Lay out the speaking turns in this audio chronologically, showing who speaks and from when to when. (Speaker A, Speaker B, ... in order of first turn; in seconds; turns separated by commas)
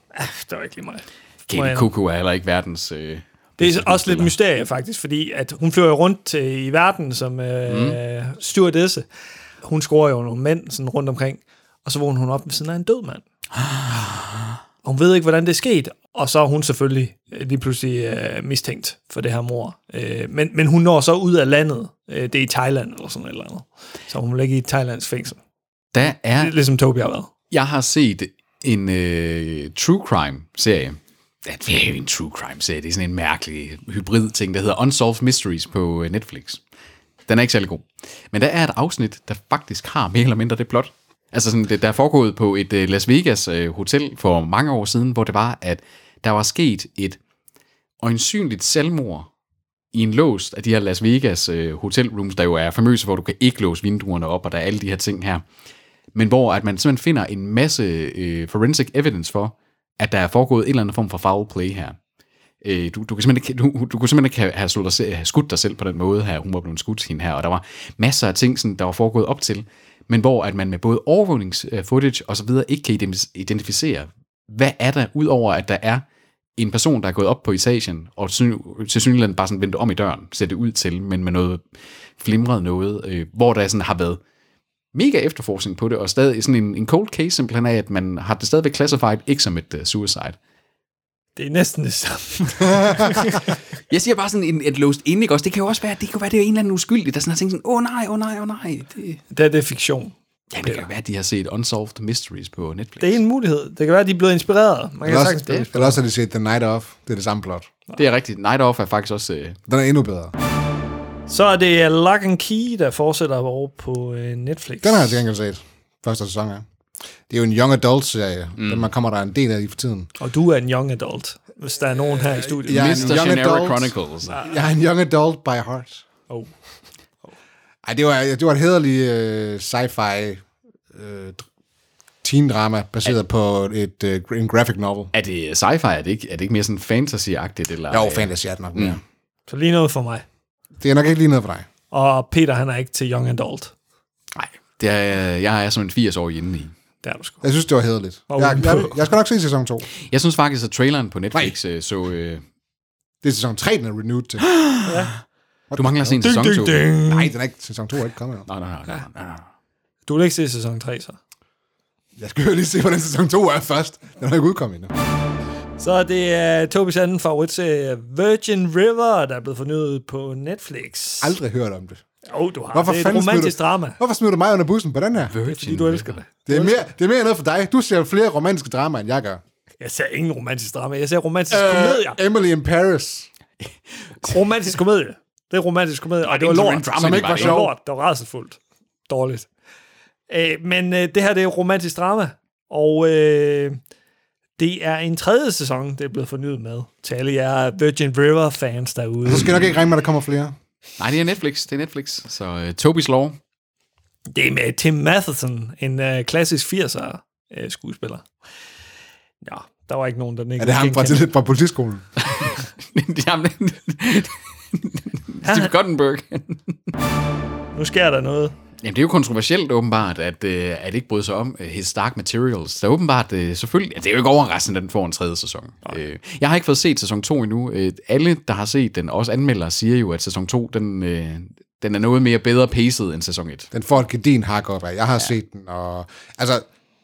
Speaker A: 0.1-1.9, Speaker B: 1.5-4.3, Speaker A: 3.6-9.0, Speaker B: 7.7-8.0, Speaker A: 9.6-13.2, Speaker B: 13.5-14.5, Speaker A: 14.8-25.4, Speaker B: 25.9-26.5, Speaker A: 26.3-27.3, Speaker B: 27.5-36.6, Speaker B: 37.3-47.2, Speaker B: 48.0-49.3, Speaker B: 49.9-55.4, Speaker B: 56.1-62.0, Speaker B: 62.6-76.0, Speaker B: 76.6-81.6, Speaker B: 82.2-84.2, Speaker B: 84.9-90.4, Speaker A: 91.3-93.5, Speaker B: 93.9-99.2, Speaker A: 99.3-100.9, Speaker B: 100.5-103.2, Speaker A: 103.0-106.0, Speaker C: 105.0-107.7, Speaker B: 105.5-105.8, Speaker B: 108.0-109.6, Speaker C: 109.7-110.3, Speaker A: 111.3-115.2, Speaker C: 114.8-116.6, Speaker C: 117.3-120.1, Speaker B: 118.6-118.9, Speaker A: 120.2-123.3, Speaker C: 122.3-126.0, Speaker B: 122.7-124.5, Speaker C: 127.8-131.4, Speaker C: 132.2-135.1, Speaker B: 135.1-139.0, Speaker C: 137.9-139.0, Speaker A: 139.5-140.2, Speaker C: 140.8-141.7, Speaker A: 141.9-143.7, Speaker B: 144.3-146.7, Speaker A: 147.0-147.4, Speaker C: 147.4-149.9, Speaker A: 148.3-149.0, Speaker B: 150.1-152.4, Speaker C: 153.2-154.5, Speaker B: 154.4-155.1, Speaker A: 154.8-155.1, Speaker C: 155.7-156.3, Speaker B: 155.8-156.9, Speaker A: 156.2-157.3, Speaker C: 157.0-158.5, Speaker B: 158.5-159.4, Speaker A: 160.1-161.2, Speaker C: 162.2-164.9, Speaker A: 165.8-171.3, Speaker C: 171.2-172.0, Speaker A: 172.3-174.0, Speaker C: 172.7-175.3, Speaker B: 175.2-176.2, Speaker A: 175.4-176.9, Speaker C: 176.4-179.4, Speaker A: 179.8-182.2, Speaker C: 181.5-183.3, Speaker B: 184.2-184.6, Speaker A: 184.2-189.5, Speaker B: 186.2-187.7, Speaker C: 186.9-187.7, Speaker A: 190.3-193.8, Speaker A: 194.6-199.6, Speaker C: 199.2-200.5, Speaker B: 201.0-203.4, Speaker A: 204.3-208.3, Speaker A: 209.4-211.3, Speaker C: 210.6-212.0, Speaker B: 212.2-216.8, Speaker A: 215.4-215.7, Speaker A: 217.7-218.5, Speaker B: 218.8-233.7, Speaker C: 233.7-236.6